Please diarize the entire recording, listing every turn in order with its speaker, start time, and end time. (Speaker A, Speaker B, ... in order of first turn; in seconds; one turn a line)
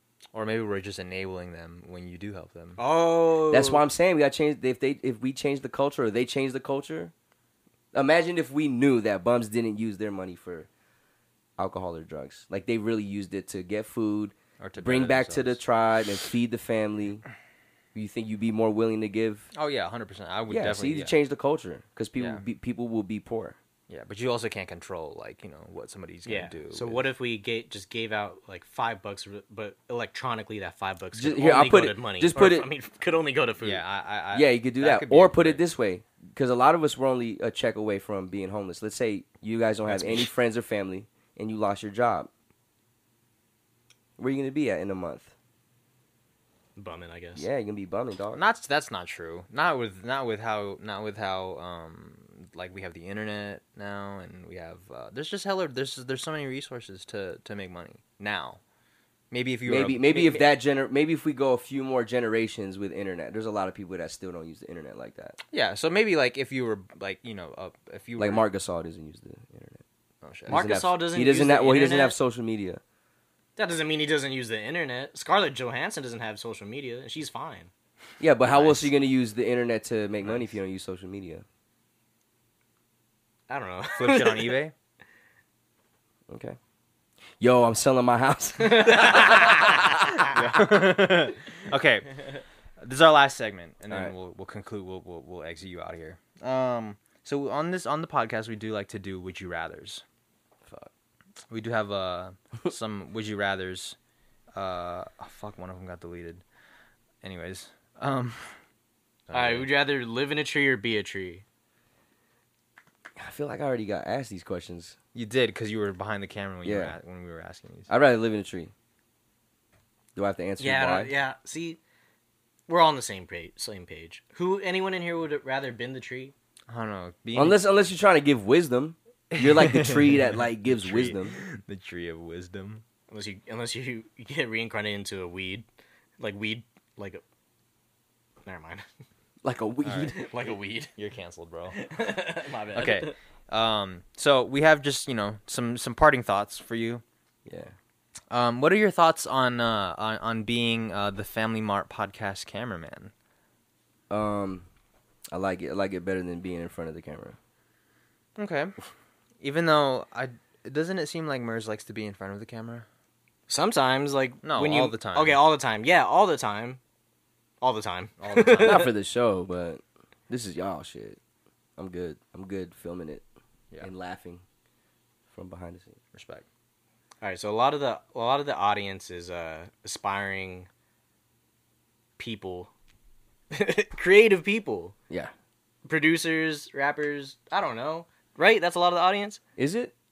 Speaker A: 0.3-2.8
Speaker B: 2.8-3.9
Speaker C: 3.5-7.1
Speaker C: 7.9-10.7
Speaker C: 11.6-17.2
Speaker A: 14.6-15.6
Speaker C: 17.9-19.5
Speaker A: 19.5-21.1
Speaker C: 20.5-23.6
Speaker A: 23.9-27.0
Speaker B: 26.2-33.8
Speaker C: 31.1-32.7
Speaker A: 33.6-35.7
Speaker C: 34.3-42.3
Speaker B: 39.9-40.3
Speaker C: 44.2-45.3
Speaker B: 46.8-47.5
Speaker C: 47.4-48.4
Speaker A: 48.3-58.6
Speaker A: 59.3-60.4
Speaker C: 59.6-65.4
Speaker A: 65.5-68.4
Speaker C: 68.2-69.8
Speaker A: 70.2-70.8
Speaker B: 70.5-72.2
Speaker C: 70.5-72.8
Speaker B: 73.5-77.7
Speaker C: 78.2-81.4
Speaker B: 83.5-84.6
Speaker A: 84.0-84.7
Speaker C: 86.3-86.6
Speaker C: 87.4-90.2
Speaker B: 88.6-89.7
Speaker A: 89.8-100.0
Speaker A: 101.5-104.0
Speaker A: 104.5-106.4
Speaker A: 107.2-108.6
Speaker A: 109.3-109.7
Speaker B: 109.3-111.4
Speaker C: 113.2-115.0
Speaker A: 115.1-117.9
Speaker C: 116.6-117.0
Speaker C: 117.9-118.7
Speaker C: 120.2-121.1
Speaker B: 120.6-121.8
Speaker B: 122.7-126.3
Speaker A: 126.7-127.6
Speaker C: 127.3-131.4
Speaker A: 129.3-132.8
Speaker B: 133.1-135.7
Speaker B: 136.2-137.2
Speaker B: 138.4-138.8
Speaker C: 139.4-140.2
Speaker A: 139.8-140.2
Speaker B: 140.1-140.9
Speaker A: 140.9-141.8
Speaker B: 141.7-143.1
Speaker A: 142.7-147.0
Speaker C: 147.4-147.7
Speaker A: 148.3-153.1
Speaker C: 154.1-154.7
Speaker C: 155.3-157.4
Speaker A: 158.4-158.7
Speaker A: 159.4-162.8
Speaker B: 163.5-166.8
Speaker A: 164.4-165.4
Speaker B: 167.6-168.9
Speaker A: 168.2-168.8
Speaker C: 168.6-171.2
Speaker C: 171.8-173.2
Speaker C: 173.8-174.4
Speaker C: 175.3-176.0
Speaker A: 176.1-176.4
Speaker B: 177.2-180.7
Speaker B: 182.2-182.7
Speaker B: 183.5-184.9
Speaker B: 185.8-189.4
Speaker C: 189.6-189.9